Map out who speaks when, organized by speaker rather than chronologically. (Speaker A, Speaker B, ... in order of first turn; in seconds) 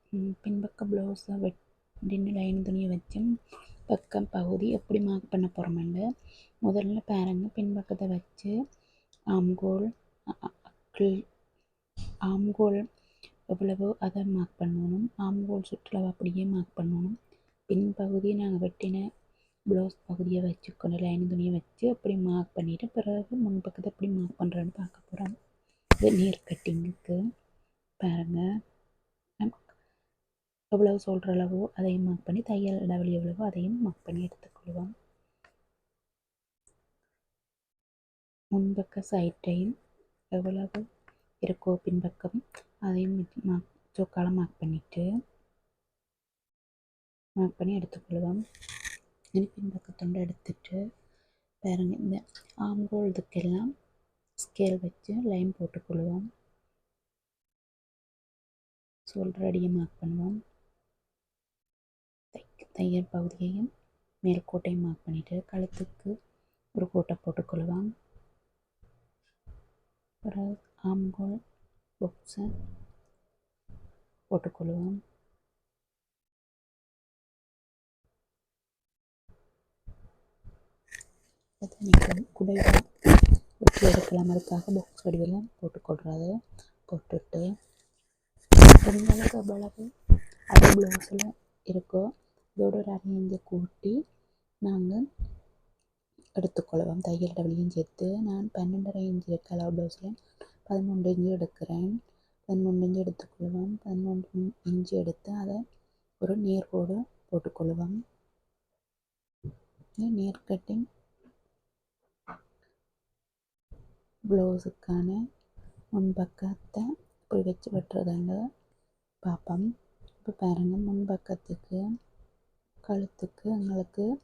Speaker A: 0.1-3.3, 3.9-6.0, 6.6-8.5, 9.3-11.2, 12.3-12.8, 13.5-17.2, 17.7-19.0, 19.7-25.3, 26.0-27.2, 28.0-28.4, 29.4-29.7, 30.7-34.9, 38.5-39.7, 40.3-40.9, 41.4-45.1, 47.4-48.4, 49.3-50.8, 51.6-53.7, 54.4-56.2, 59.1-60.4, 62.3-63.7, 64.2-66.1, 66.8-67.9, 70.2-71.4, 72.0-72.5, 74.3-75.0, 81.6-82.9, 83.6-86.3, 86.9-87.5, 88.8-89.9, 90.5-94.0, 94.6-95.0, 96.3-100.1, 100.7-101.9, 102.5-105.6, 106.2-108.0, 110.0-110.8, 114.3-115.2, 115.9-118.4, 119.2-119.7, 120.2-121.8, 122.8-124.1